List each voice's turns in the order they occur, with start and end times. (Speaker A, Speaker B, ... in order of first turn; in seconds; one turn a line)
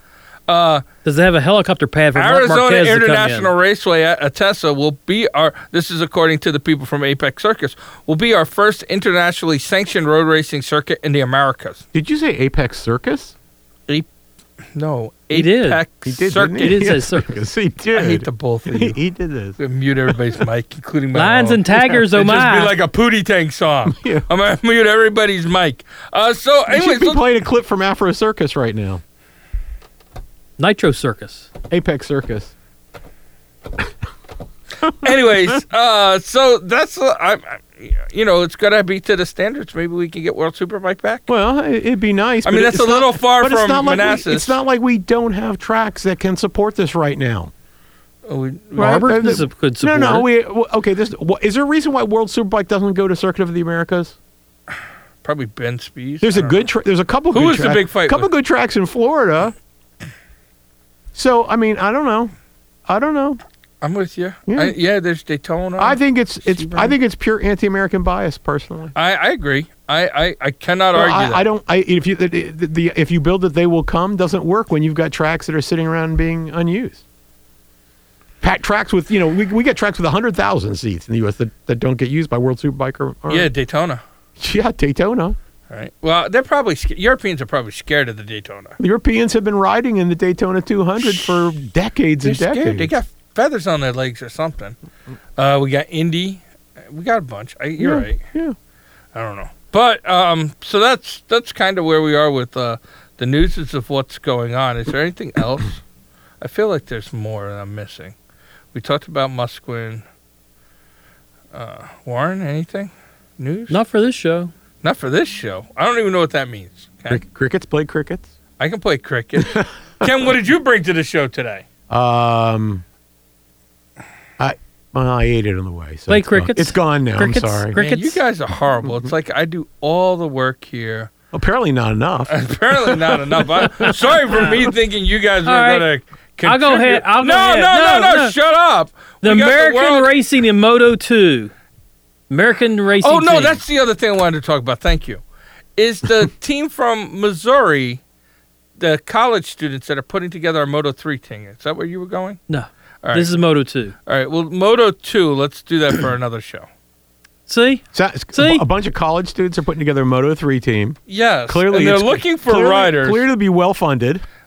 Speaker A: 0.5-0.8
Speaker B: 1.0-3.5
Speaker A: 2.1-11.8
Speaker C: 11.9-13.3
Speaker A: 14.8-16.9
Speaker B: 15.3-15.8
Speaker C: 16.1-19.6
Speaker B: 16.5-17.3
Speaker A: 17.9-19.0
Speaker A: 19.6-27.2
Speaker B: 21.1-22.7
Speaker C: 23.9-24.2
Speaker C: 26.7-29.0
Speaker B: 30.6-31.5
Speaker C: 31.7-32.5
Speaker C: 34.8-35.1
Speaker A: 34.9-41.3
Speaker C: 41.3-47.5
Speaker A: 42.5-44.5
Speaker A: 48.3-49.1
Speaker B: 48.8-50.3
Speaker C: 48.8-54.2
Speaker A: 55.2-56.6
Speaker C: 56.2-59.5
Speaker A: 57.3-58.3
Speaker C: 61.1-62.3
Speaker C: 62.9-63.4
Speaker A: 63.8-66.9
Speaker C: 64.5-64.8
Speaker C: 65.8-68.9
Speaker A: 69.0-71.4
Speaker C: 70.9-77.0
Speaker C: 78.4-83.5
Speaker A: 83.3-84.0
Speaker C: 84.4-85.4
Speaker A: 85.7-88.8
Speaker C: 88.8-92.9
Speaker A: 91.0-91.4
Speaker A: 92.2-94.8
Speaker A: 95.4-98.2
Speaker C: 97.8-98.6
Speaker A: 99.1-105.8
Speaker A: 106.4-108.2
Speaker A: 108.7-110.0
Speaker A: 111.5-113.8
Speaker B: 113.7-114.5
Speaker A: 114.8-117.2
Speaker C: 117.1-118.3
Speaker A: 118.6-121.7
Speaker C: 119.4-120.1
Speaker C: 121.9-122.8
Speaker C: 124.4-127.8
Speaker B: 126.1-128.2
Speaker A: 127.8-131.1
Speaker C: 128.8-129.1
Speaker C: 131.3-133.6
Speaker A: 132.3-140.1
Speaker B: 133.6-133.9
Speaker B: 135.4-135.9
Speaker B: 136.4-138.3
Speaker B: 139.2-141.5
Speaker B: 142.3-143.6
Speaker A: 143.0-145.2
Speaker A: 145.8-148.0
Speaker A: 148.8-152.4
Speaker B: 152.5-153.9
Speaker A: 153.0-153.4
Speaker A: 154.1-156.7
Speaker B: 157.5-158.7
Speaker C: 157.9-164.2
Speaker A: 161.1-163.2